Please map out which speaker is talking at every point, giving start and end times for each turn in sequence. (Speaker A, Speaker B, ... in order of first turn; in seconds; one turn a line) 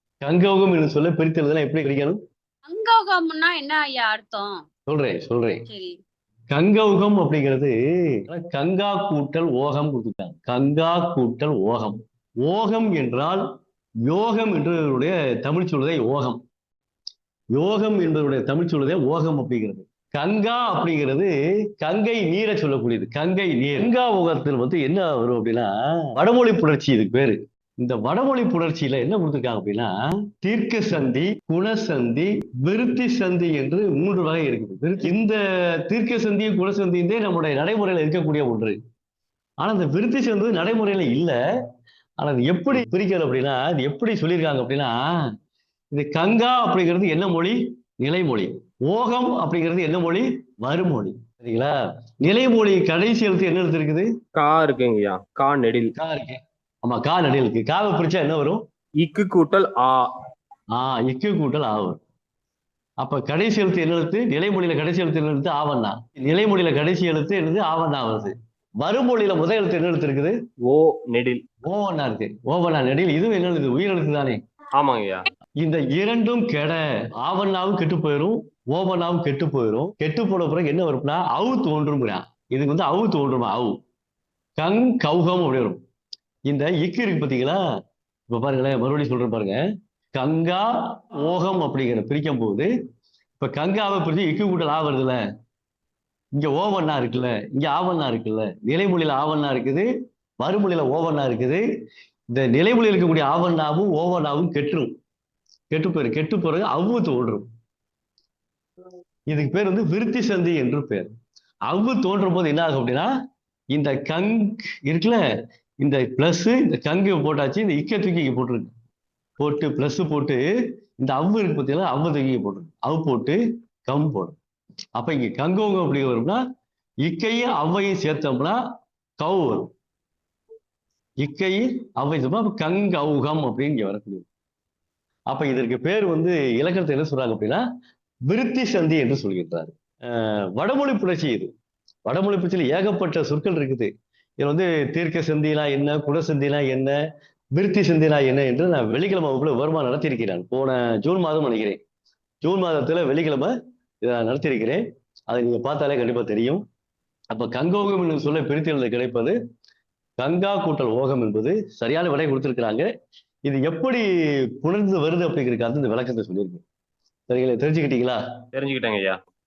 Speaker A: 0.2-2.2
Speaker B: 2.6-4.6
Speaker A: 4.9-5.6
Speaker B: 5.7-6.0
Speaker A: 6.5-13.4
Speaker A: 14.1-16.4
Speaker A: 17.5-38.8
Speaker A: 39.6-41.3
Speaker A: 42.2-44.9
Speaker A: 45.9-54.1
Speaker C: 54.3-55.9
Speaker A: 56.0-58.6
Speaker C: 59.0-60.1
Speaker A: 60.7-62.0
Speaker A: 63.0-70.3
Speaker C: 70.6-71.4
Speaker A: 71.7-74.4
Speaker C: 74.8-75.2
Speaker A: 75.6-83.7
Speaker A: 84.6-85.8
Speaker A: 86.5-87.6
Speaker A: 88.3-89.6
Speaker A: 90.1-92.7
Speaker A: 93.4-95.2
Speaker A: 96.4-99.9
Speaker A: 100.4-101.6
Speaker A: 102.3-104.9
Speaker A: 105.7-107.5
Speaker A: 109.3-111.1
Speaker A: 111.7-113.1
Speaker A: 113.7-115.2
Speaker A: 115.8-118.7
Speaker A: 119.4-120.4
Speaker A: 121.0-124.3
Speaker A: 125.0-126.4
Speaker A: 127.0-128.6
Speaker A: 129.2-129.7
Speaker A: 131.2-134.2
Speaker A: 135.3-137.6
Speaker A: 138.3-141.5
Speaker A: 142.1-146.9
Speaker A: 147.6-151.8
Speaker A: 152.4-156.6
Speaker A: 157.3-159.3
Speaker A: 160.2-162.9
Speaker A: 163.5-164.0
Speaker A: 164.6-166.6
Speaker A: 167.3-168.2
Speaker C: 168.5-169.2